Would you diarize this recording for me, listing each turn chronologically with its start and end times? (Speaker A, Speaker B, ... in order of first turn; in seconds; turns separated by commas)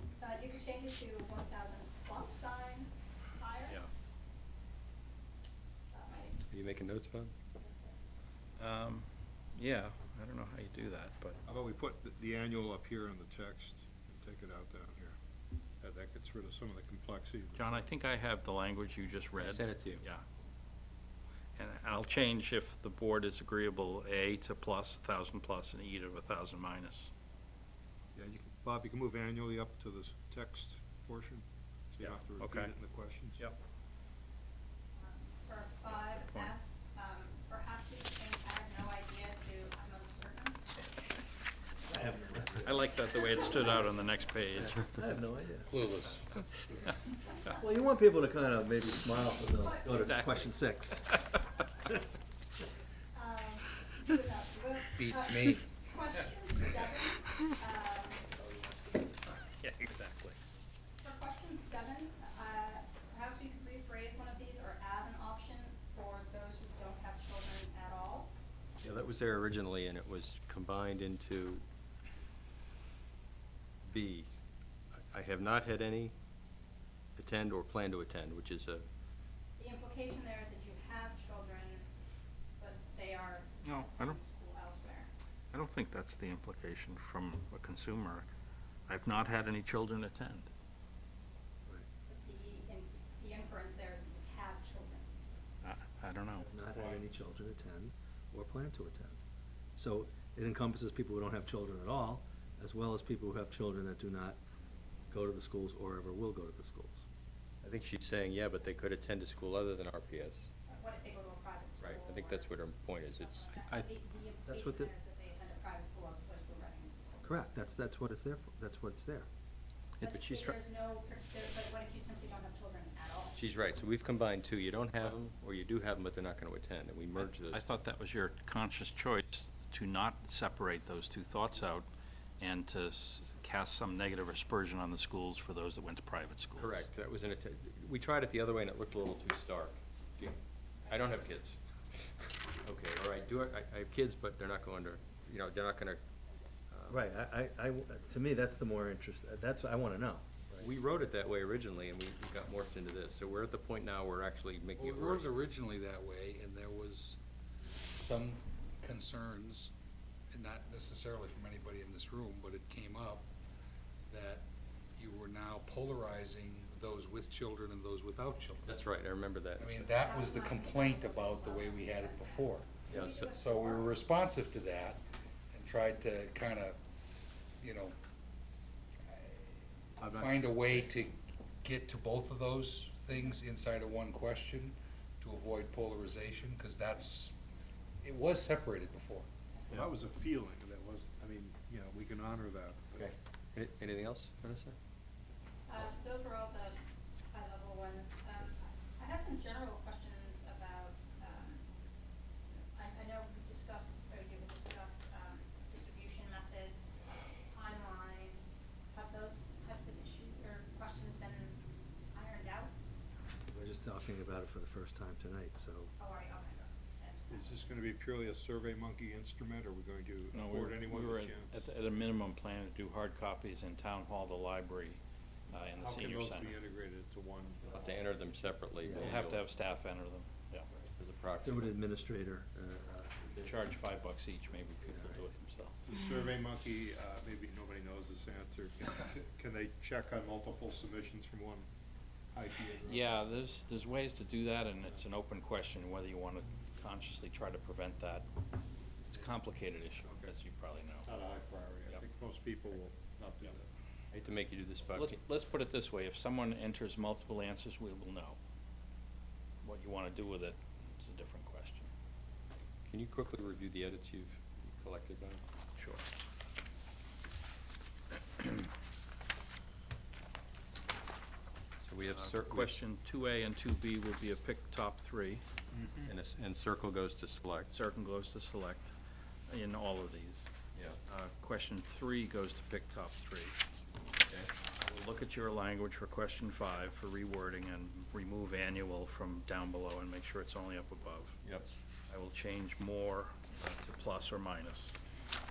Speaker A: 0.2-3.8, Speaker A: 5.9-6.4, Speaker B: 6.5-7.3, Speaker A: 7.5-8.0, Speaker C: 8.6-11.4, Speaker D: 11.4-15.2, Speaker D: 15.8-17.9, Speaker C: 17.6-20.2, Speaker B: 19.4-20.0, Speaker C: 21.6-27.1, Speaker D: 28.1-33.5, Speaker C: 32.0-32.7, Speaker A: 35.0-40.6, Speaker C: 36.2-36.5, Speaker E: 41.9-42.8, Speaker C: 42.6-44.9, Speaker A: 43.2-43.9, Speaker E: 44.6-45.7, Speaker F: 45.7-46.4, Speaker E: 47.5-51.1, Speaker A: 49.6-50.2, Speaker C: 50.0-50.5, Speaker A: 53.1-58.3, Speaker F: 55.0-55.7, Speaker C: 59.6-60.4, Speaker A: 61.0-68.3, Speaker B: 68.8-71.6, Speaker B: 73.8-74.3, Speaker B: 75.0-76.2, Speaker B: 77.2-78.9, Speaker A: 79.6-81.9, Speaker A: 82.6-85.1, Speaker C: 83.7-84.2, Speaker C: 85.5-88.3, Speaker C: 88.9-90.5, Speaker A: 92.1-95.1, Speaker C: 95.6-96.5, Speaker E: 96.4-99.2, Speaker E: 99.8-104.4, Speaker E: 105.1-107.0, Speaker B: 107.6-110.5, Speaker A: 110.7-112.5, Speaker B: 111.8-113.5, Speaker A: 113.2-117.2, Speaker E: 114.5-114.9, Speaker E: 117.2-119.3, Speaker C: 120.0-120.5, Speaker A: 120.0-123.4, Speaker B: 120.1-120.5, Speaker B: 123.4-127.7, Speaker C: 127.5-131.9, Speaker C: 132.4-136.8, Speaker B: 136.6-146.0, Speaker A: 140.9-141.2, Speaker B: 146.7-147.0, Speaker E: 146.9-150.7, Speaker B: 150.6-155.4, Speaker F: 154.8-157.2, Speaker F: 157.9-159.7, Speaker F: 160.3-163.3, Speaker F: 164.1-168.7, Speaker B: 168.7-169.9, Speaker F: 169.6-176.8, Speaker A: 170.0-174.0, Speaker B: 172.9-173.2, Speaker F: 177.6-177.9, Speaker F: 179.1-179.5, Speaker D: 180.0-180.9, Speaker F: 180.0-187.3, Speaker F: 188.0-189.3, Speaker D: 189.7-193.1, Speaker B: 193.0-194.8, Speaker A: 195.7-201.7, Speaker A: 202.5-211.6, Speaker A: 212.1-212.7, Speaker E: 213.5-215.9, Speaker A: 216.0-217.7, Speaker D: 217.3-221.7, Speaker C: 220.3-226.6, Speaker D: 225.7-228.0, Speaker B: 227.7-229.5, Speaker C: 228.9-230.7, Speaker B: 230.8-231.7, Speaker E: 231.4-233.6, Speaker C: 233.4-235.8, Speaker E: 234.8-235.2, Speaker D: 235.8-241.7, Speaker D: 242.3-243.3, Speaker C: 242.8-248.2, Speaker C: 249.1-251.1, Speaker D: 250.0-250.3, Speaker D: 251.0-253.6, Speaker B: 254.1-255.2, Speaker C: 254.9-258.4, Speaker C: 259.6-261.9, Speaker B: 262.9-265.4, Speaker C: 265.8-266.0, Speaker B: 271.8-272.9, Speaker C: 272.1-275.4, Speaker D: 275.7-276.1, Speaker B: 276.1-277.7, Speaker C: 277.7-278.9, Speaker C: 279.5-280.5, Speaker B: 280.8-281.0, Speaker C: 281.1-283.6, Speaker B: 284.3-284.5, Speaker C: 284.7-291.4, Speaker B: 291.4-291.7, Speaker C: 292.1-294.9